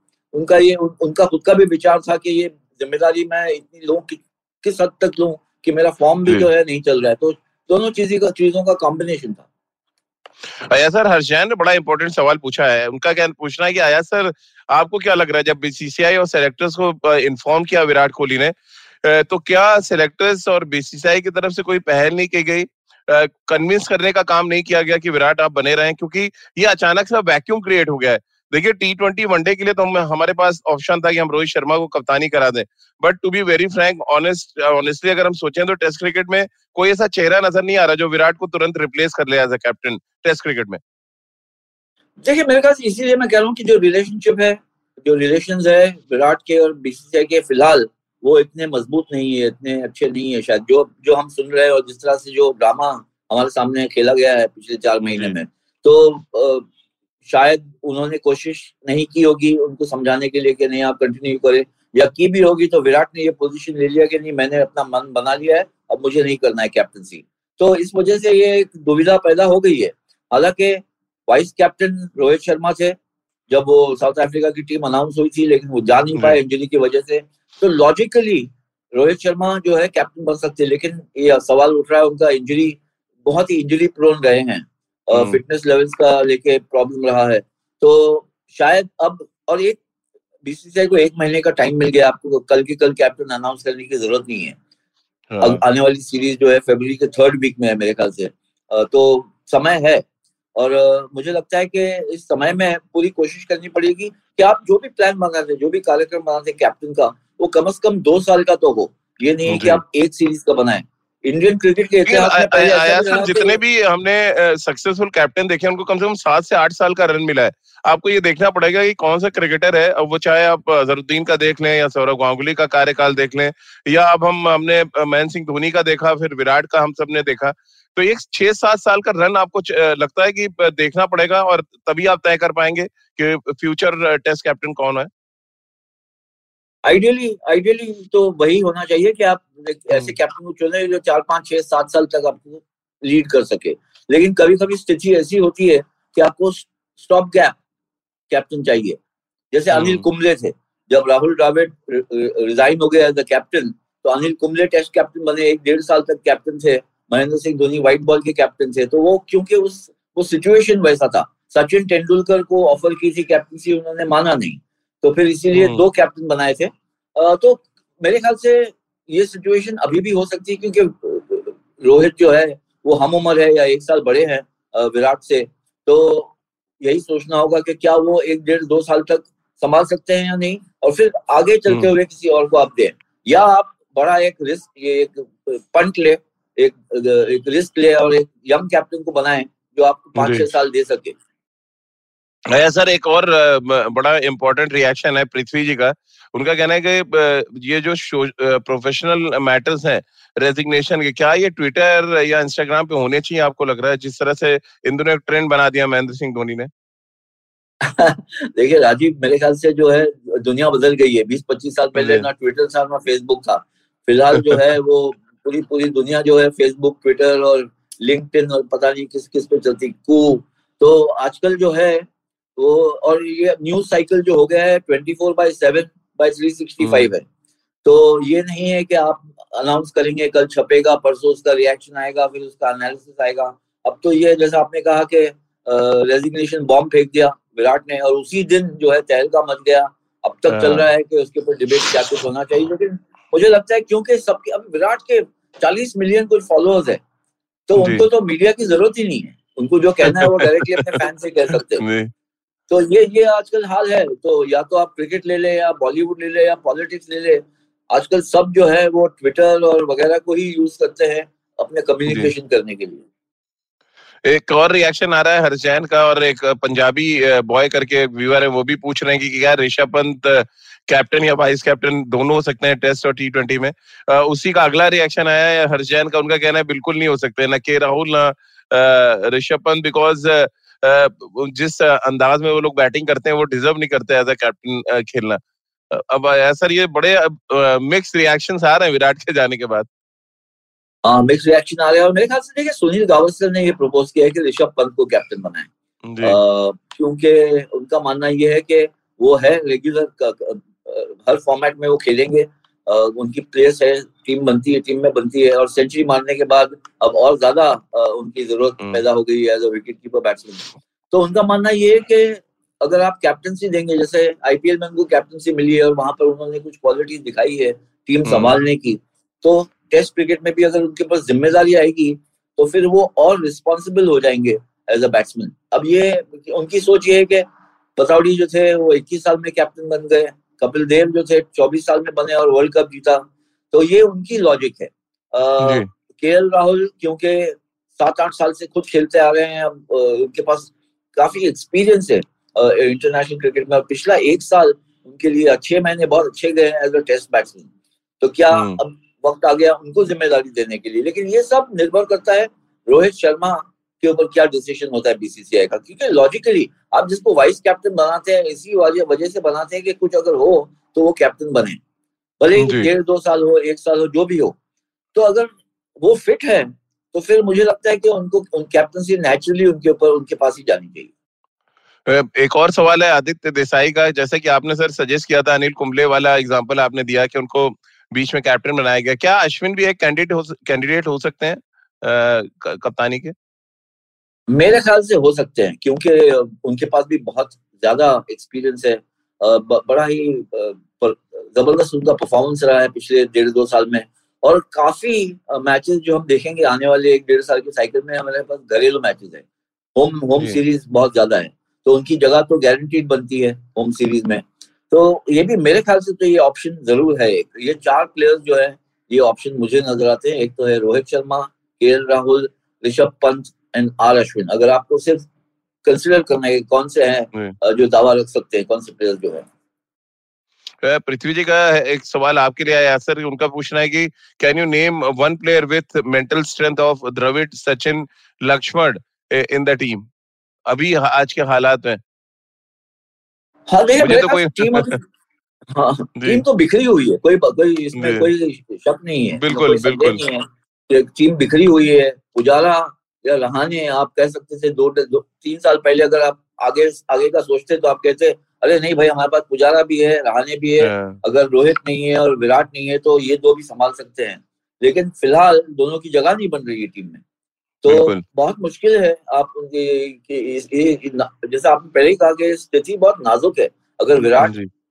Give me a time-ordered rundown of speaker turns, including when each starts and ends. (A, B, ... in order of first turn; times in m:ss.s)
0:00.3-0:09.4 A
0:10.6-0:40.8 B
0:42.2-0:56.6 A
0:55.0-0:55.3 B
0:57.2-1:13.0 A
1:13.5-1:29.8 A
1:25.1-1:25.4 B
1:30.4-1:34.6 A
1:35.3-1:35.6 B
1:35.4-1:40.0 A
1:40.6-1:53.6 A
1:49.5-1:49.8 B
1:52.1-2:15.1 B
2:16.8-2:27.5 A
2:28.3-2:29.0 A
2:29.5-3:11.2 A
2:29.7-2:30.0 B
2:45.5-2:45.8 B
3:10.2-3:10.5 B
3:12.5-3:26.7 B
3:27.8-3:47.2 A
3:32.0-3:32.2 B
3:46.8-3:47.1 B
3:47.8-4:07.0 A
4:00.5-4:00.8 B
4:07.7-4:11.8 A
4:07.8-4:08.0 B
4:10.3-4:10.8 B
4:11.8-4:12.1 B
4:12.7-4:23.0 A
4:24.2-4:45.4 B
4:45.9-4:49.9 B
4:51.0-4:55.7 A
4:56.0-4:56.4 B
4:56.2-5:47.7 A
5:18.2-5:18.6 B
5:35.6-5:35.9 B
5:48.2-6:01.8 A
5:48.5-5:48.8 B
6:02.4-6:04.6 A
6:02.6-6:02.9 B
6:05.1-6:11.1 A
6:12.1-6:23.3 B
6:24.5-6:39.4 A
6:40.0-6:55.3 A
6:55.8-6:59.5 A
7:00.8-7:10.0 B
7:10.7-7:12.0 B
7:13.7-7:15.0 A
7:14.0-7:14.9 B
7:15.7-7:37.2 A
7:18.0-7:18.2 B
7:19.4-7:20.2 B
7:30.8-7:31.2 B
7:37.8-7:44.5 A
7:37.9-7:38.2 B
7:44.4-7:44.7 B